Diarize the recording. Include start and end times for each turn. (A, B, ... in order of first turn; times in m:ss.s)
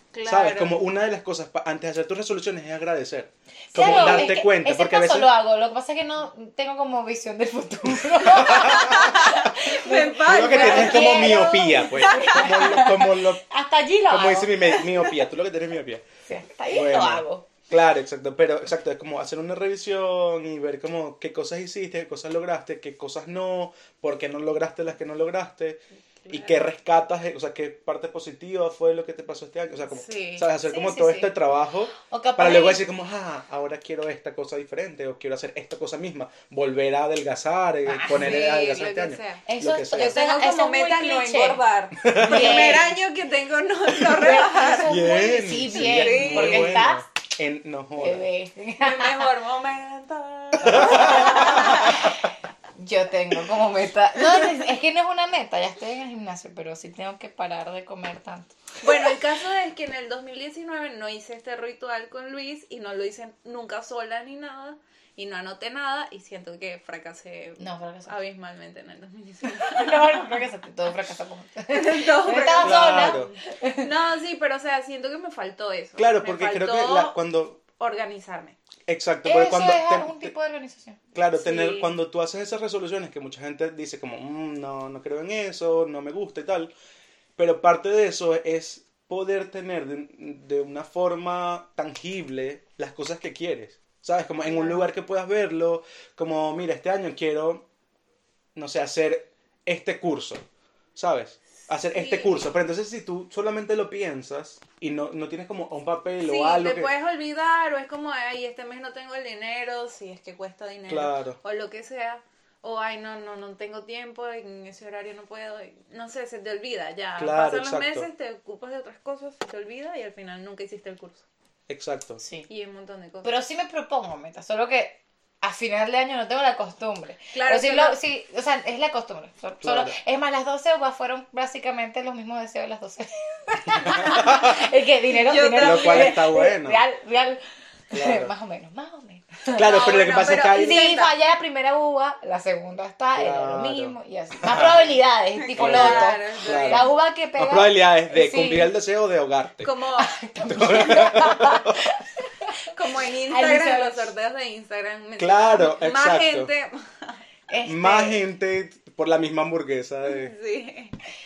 0:00.1-0:00.8 A
0:00.2-0:05.3 B
0:03.7-0:15.1 C
0:03.7-0:04.4 A
0:08.2-0:09.1 B
0:08.4-0:12.7 A
0:10.2-0:13.4 B
0:14.1-0:16.0 B
0:16.2-0:17.5 C
0:16.7-0:40.2 B
0:26.2-0:26.7 A
0:29.9-0:30.5 A
0:30.6-0:31.3 C
0:32.0-0:32.8 C
0:37.8-0:38.4 C
0:38.1-0:45.0 A
0:39.4-0:43.0 C
0:42.0-0:42.9 B
0:44.0-0:47.0 C
0:44.8-0:48.3 B
0:45.6-0:46.9 A
0:48.0-0:49.3 C
0:48.8-0:52.1 A
0:50.6-0:51.9 B
0:50.6-0:59.0 C
0:58.8-1:10.4 A
1:07.6-1:08.1 C
1:09.6-1:13.8 C
1:11.7-1:18.6 A
1:12.6-1:13.3 B
1:16.0-1:17.6 B
1:18.9-1:20.3 B
1:19.2-1:21.0 C
1:21.1-1:26.7 B
1:21.4-1:21.9 A
1:27.4-1:37.6 B
1:34.4-1:34.9 A
1:38.5-1:46.9 B
1:41.8-1:42.5 A
1:46.2-2:01.2 A
1:50.9-1:51.4 B
1:57.2-1:58.1 B
2:01.7-2:02.2 B
2:02.2-2:02.5 C
2:02.5-2:03.3 A
2:03.2-2:19.9 C
2:07.3-2:08.0 A
2:09.6-2:10.0 B
2:13.8-2:14.5 B
2:13.9-2:14.2 A
2:15.1-2:16.3 A
2:15.5-2:16.8 B
2:17.9-2:18.3 B
2:19.5-2:20.9 B
2:19.6-2:21.2 A
2:20.5-2:28.7 C
2:23.2-2:24.9 B
2:25.4-2:26.9 A
2:25.6-2:29.7 B
2:29.6-2:30.2 A
2:30.0-2:34.1 C
2:30.5-2:31.8 B
2:32.6-2:37.2 A
2:35.2-2:36.5 B
2:37.5-2:38.2 C
2:37.6-2:40.3 B
2:40.0-2:40.9 A